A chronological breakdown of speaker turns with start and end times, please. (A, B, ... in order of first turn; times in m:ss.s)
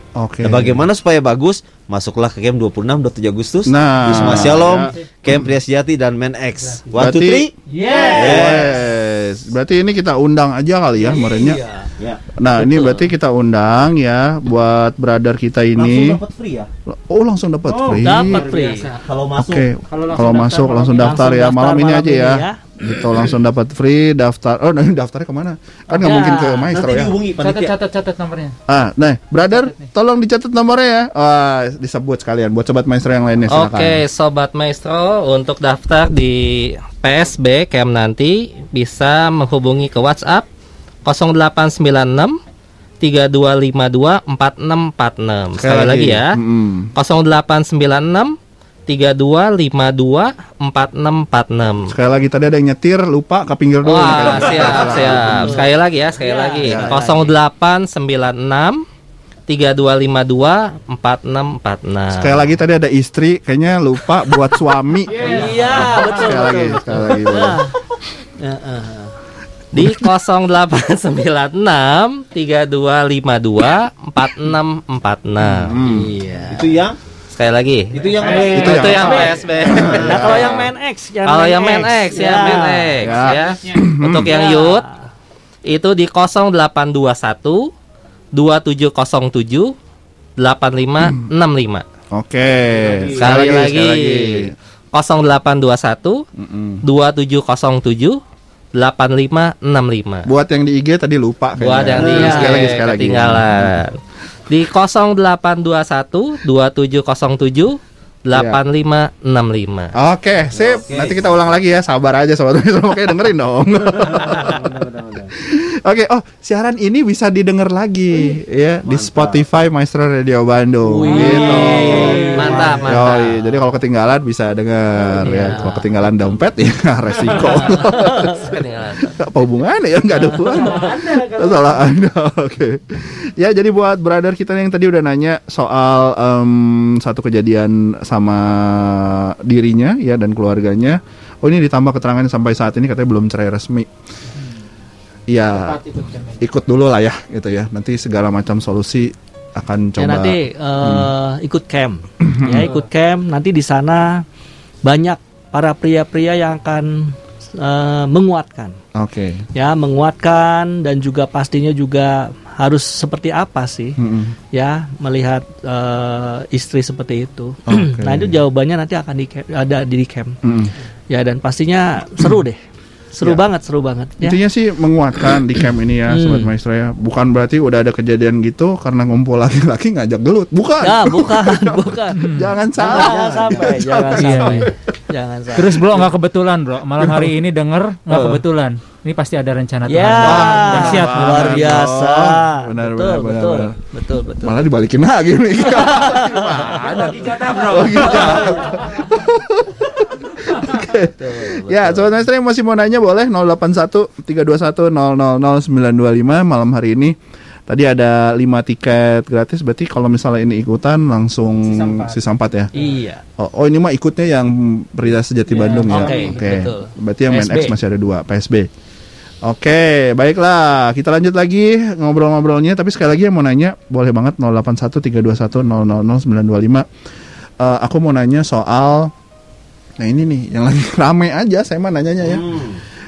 0:00.2-0:00.8 A
0:00.4-0:08.7 B
0:03.7-0:05.5 A
0:07.0-0:07.5 A
0:07.7-0:08.5 C
0:07.9-0:08.2 D
0:08.2-0:11.6 A
0:11.2-0:11.6 D
0:12.4-0:16.2 A
0:15.8-0:16.7 B
0:16.9-0:18.4 A
0:17.7-0:19.1 C
0:18.0-0:18.9 D
0:18.9-0:19.7 B
0:19.4-0:27.2 A
0:19.9-0:21.1 C
0:20.9-0:22.6 D
0:25.9-0:26.7 D
0:26.7-0:27.8 B
0:27.4-0:28.6 C
0:28.7-0:34.0 A
0:29.5-0:29.9 C
0:33.5-0:40.5 E
0:41.0-0:42.3 E
0:43.0-0:46.4 E
0:45.6-0:46.9 A
0:47.0-0:48.3 E
0:48.9-0:51.9 E
0:51.9-0:55.7 A
0:53.8-0:58.8 E
0:54.3-0:54.9 B
0:55.3-0:57.3 D
0:56.6-0:57.2 A
0:59.5-1:02.4 E
1:02.1-1:07.6 A
1:05.1-1:06.5 C
1:05.2-1:07.7 D
1:08.4-1:09.1 D
1:09.7-1:15.8 E
1:15.4-1:16.1 A
1:16.0-1:16.5 D
1:16.5-1:17.0 B
1:17.3-1:20.6 E
1:17.9-1:20.3 B
1:18.2-1:18.7 C
1:18.4-1:20.7 A
1:18.7-1:23.0 D
1:21.2-1:24.9 E
1:23.0-1:24.3 A
1:24.3-1:25.0 D
1:25.7-1:27.7 E
1:28.4-1:29.7 E
1:30.4-1:31.8 E
1:32.1-1:34.5 A
1:32.7-1:33.7 B
1:33.2-1:36.2 E
1:36.4-1:36.8 A
1:36.8-1:38.2 E
1:38.8-1:40.3 E
1:40.3-1:43.9 A
1:41.6-1:44.0 E
1:42.0-1:42.5 B
1:42.1-1:42.5 D
1:44.5-1:49.9 E
1:48.3-1:48.6 A
1:50.0-1:54.7 A
1:50.6-1:51.2 B
1:54.1-1:55.2 B
1:55.4-2:23.9 A
1:58.9-1:59.4 B
2:00.9-2:02.8 C
2:01.1-2:02.2 D
2:01.7-2:03.2 B
2:02.4-2:03.4 E
2:05.3-2:05.8 D
2:08.0-2:09.1 E
2:10.2-2:11.8 C
2:25.3-2:25.8 A
2:25.5-2:26.4 C
2:26.4-2:31.1 A
2:30.0-2:34.2 D
2:32.2-2:32.7 A
2:32.6-2:32.9 C
2:34.8-2:38.8 D
2:39.0-2:39.4 A
2:39.6-2:44.0 D
2:44.0-2:44.4 A
2:44.5-2:50.4 D
2:47.7-2:48.4 A
2:50.4-2:50.7 A
2:51.1-2:52.6 D
2:53.1-2:54.4 D
2:54.2-3:04.7 A
2:56.1-2:56.5 D
3:00.8-3:02.2 D
3:02.2-3:02.5 C
3:02.8-3:05.9 D
3:04.1-3:04.7 C
3:05.5-3:11.5 C
3:07.0-3:07.4 A
3:08.1-3:08.4 A
3:09.9-3:14.6 D
3:10.2-3:13.8 A
3:14.4-3:19.9 A
3:15.7-3:16.6 D
3:16.9-3:18.8 C
3:20.6-3:27.2 A
3:21.2-3:22.1 D
3:27.7-3:32.7 A
3:31.6-3:32.2 C
3:32.8-3:33.2 D
3:33.4-3:38.7 A
3:35.5-3:36.4 C
3:35.9-3:37.7 D
3:39.4-3:46.9 A
3:47.6-3:49.1 A
3:50.0-3:52.5 A
3:52.2-3:52.8 B